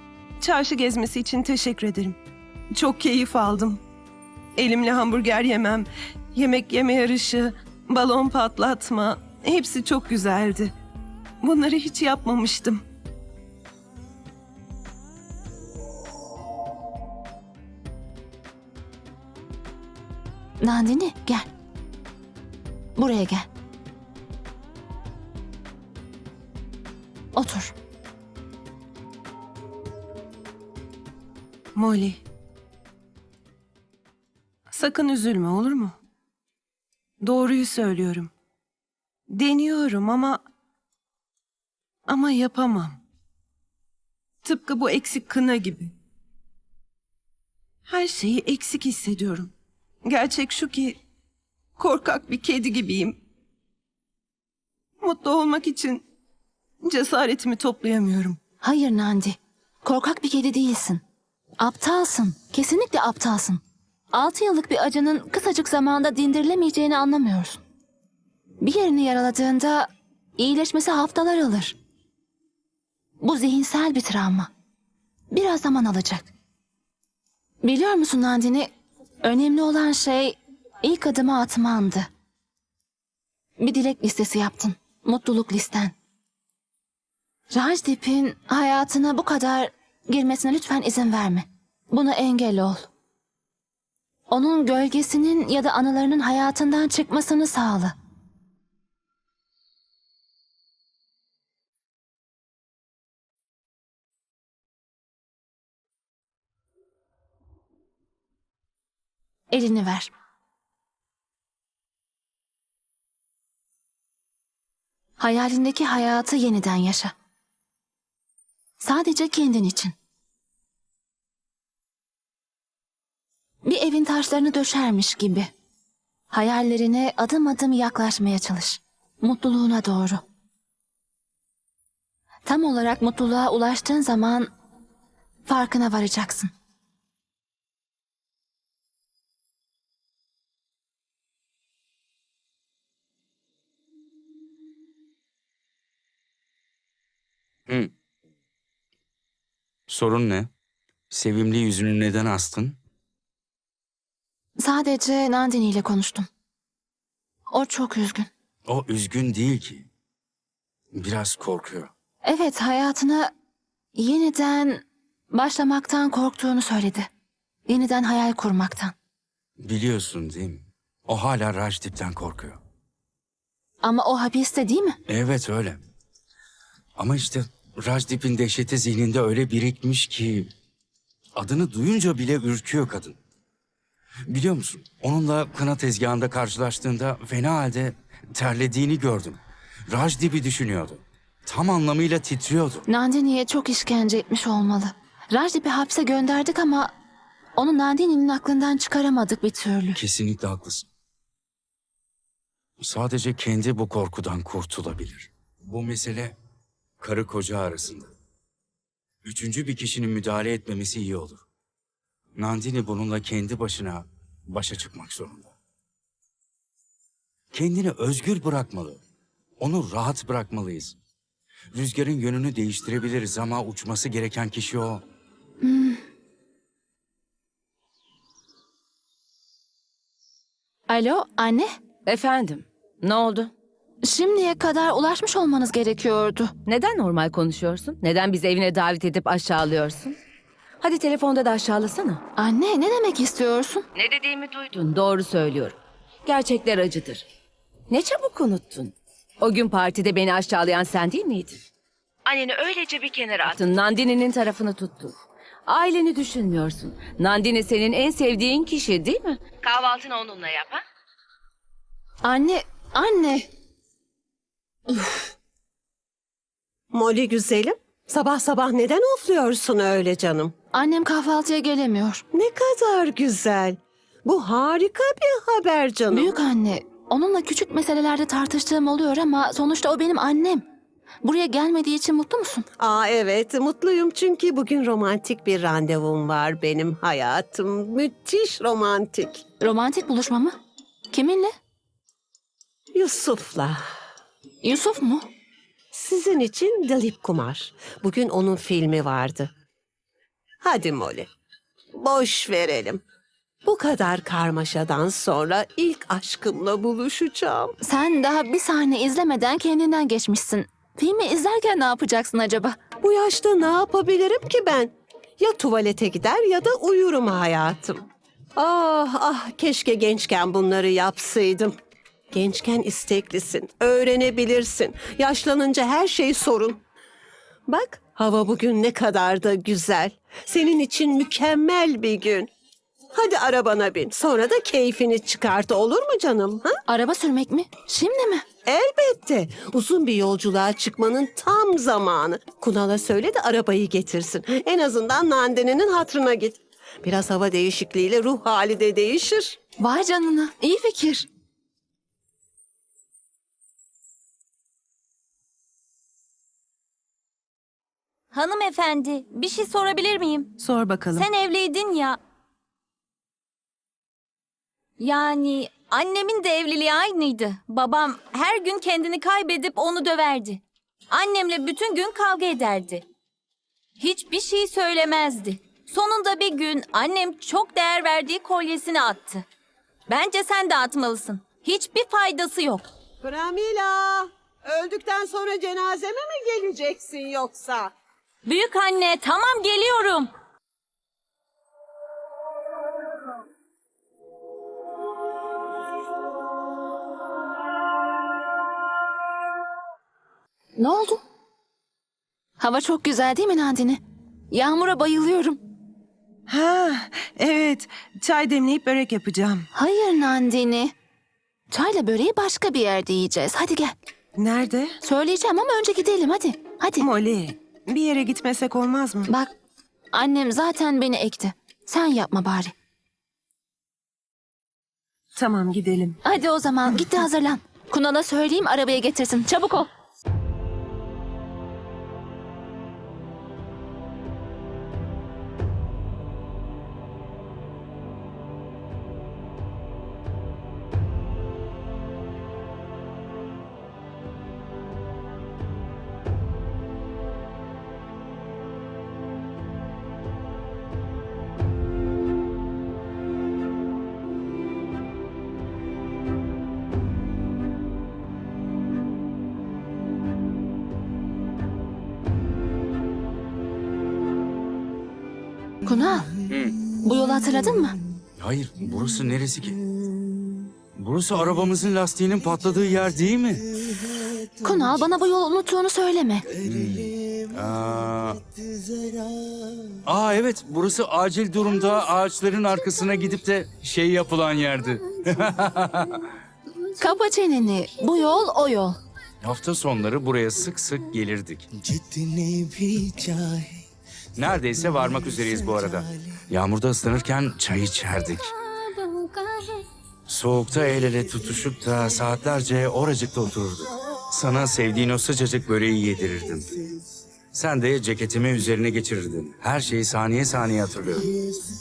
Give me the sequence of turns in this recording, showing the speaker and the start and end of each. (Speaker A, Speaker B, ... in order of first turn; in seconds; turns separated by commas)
Speaker A: 0.4-2.1, Speaker A: 2.8-3.8, Speaker A: 4.6-10.7, Speaker A: 11.4-12.8, Speaker B: 20.6-21.5, Speaker B: 22.9-23.5, Speaker B: 27.3-27.7, Speaker A: 31.8-32.2, Speaker A: 34.7-35.9, Speaker A: 37.2-38.3, Speaker A: 39.3-40.4, Speaker A: 42.1-43.0, Speaker A: 44.4-45.9, Speaker A: 47.9-49.5, Speaker A: 50.1-51.0, Speaker A: 51.8-53.1, Speaker A: 55.0-56.0, Speaker A: 56.8-58.4, Speaker B: 58.6-61.0, Speaker B: 61.6-63.6, Speaker B: 64.1-67.6, Speaker B: 68.6-71.8, Speaker B: 73.2-74.5, Speaker B: 75.3-76.3, Speaker B: 77.6-78.7, Speaker B: 79.2-82.1, Speaker B: 83.6-85.9, Speaker B: 87.5-92.9, Speaker B: 94.3-97.9, Speaker B: 109.5-110.1, Speaker B: 115.2-117.1, Speaker B: 118.8-119.9, Speaker B: 123.6-125.5, Speaker B: 126.3-130.2, Speaker B: 132.4-134.5, Speaker B: 135.4-136.5, Speaker C: 149.9-150.5, Speaker C: 151.1-152.8, Speaker B: 154.6-156.3, Speaker B: 157.5-158.3, Speaker C: 158.7-159.9, Speaker C: 160.9-161.9, Speaker B: 162.2-163.3, Speaker B: 163.9-167.1, Speaker B: 167.7-168.9, Speaker C: 169.6-172.6, Speaker B: 173.8-175.0, Speaker C: 175.1-175.8, Speaker C: 177.0-180.5, Speaker C: 181.3-183.2, Speaker C: 184.3-192.8, Speaker B: 192.9-196.9, Speaker B: 197.6-200.0, Speaker C: 199.9-200.9, Speaker C: 202.8-206.3, Speaker C: 207.0-208.1, Speaker C: 209.2-211.4, Speaker C: 212.4-215.5, Speaker C: 217.5-219.0, Speaker C: 219.6-221.0, Speaker C: 221.7-225.0, Speaker B: 225.6-226.0, Speaker B: 230.9-231.7, Speaker D: 232.1-233.5, Speaker B: 234.0-236.5, Speaker D: 236.6-240.2, Speaker D: 240.8-242.2, Speaker B: 242.3-243.8, Speaker D: 243.9-247.2, Speaker D: 247.9-251.6, Speaker D: 252.2-255.1, Speaker D: 255.7-260.8, Speaker B: 262.2-263.5, Speaker E: 266.9-270.5, Speaker B: 270.7-272.2, Speaker E: 272.3-276.4, Speaker B: 276.1-280.6, Speaker B: 281.2-282.6, Speaker E: 282.8-289.4, Speaker B: 289.6-290.5, Speaker B: 291.1-291.5, Speaker E: 292.9-293.8, Speaker B: 294.6-295.2, Speaker E: 295.9-299.5, Speaker E: 300.6-301.3, Speaker E: 301.9-303.0, Speaker E: 303.6-307.7, Speaker B: 307.8-312.8, Speaker E: 313.0-318.0, Speaker E: 318.6-321.7, Speaker E: 322.3-326.8, Speaker E: 327.7-332.5, Speaker E: 333.1-336.7, Speaker B: 336.9-338.4, Speaker E: 338.7-349.6, Speaker B: 349.8-351.3, Speaker F: 358.3-360.6, Speaker A: 360.6-361.2, Speaker F: 361.1-362.2, Speaker F: 365.0-373.0, Speaker F: 374.0-379.4, Speaker F: 380.1-382.9, Speaker E: 383.2-387.9, Speaker F: 388.4-390.3, Speaker B: 400.8-401.2, Speaker B: 402.6-405.6, Speaker A: 406.5-409.6, Speaker B: 409.7-410.9, Speaker B: 411.7-413.9, Speaker A: 414.4-414.9, Speaker B: 415.0-417.1, Speaker A: 417.0-419.3, Speaker B: 420.1-422.7, Speaker A: 425.4-426.1, Speaker B: 426.2-429.9, Speaker B: 465.8-466.3, Speaker C: 466.5-466.8, Speaker B: 467.0-467.9, Speaker C: 468.4-469.8, Speaker C: 470.9-474.1, Speaker B: 474.6-476.5, Speaker C: 476.6-478.4, Speaker C: 480.0-486.2, Speaker B: 487.0-489.0, Speaker C: 489.4-491.7, Speaker C: 494.4-498.5, Speaker C: 500.3-506.8, Speaker C: 507.5-511.3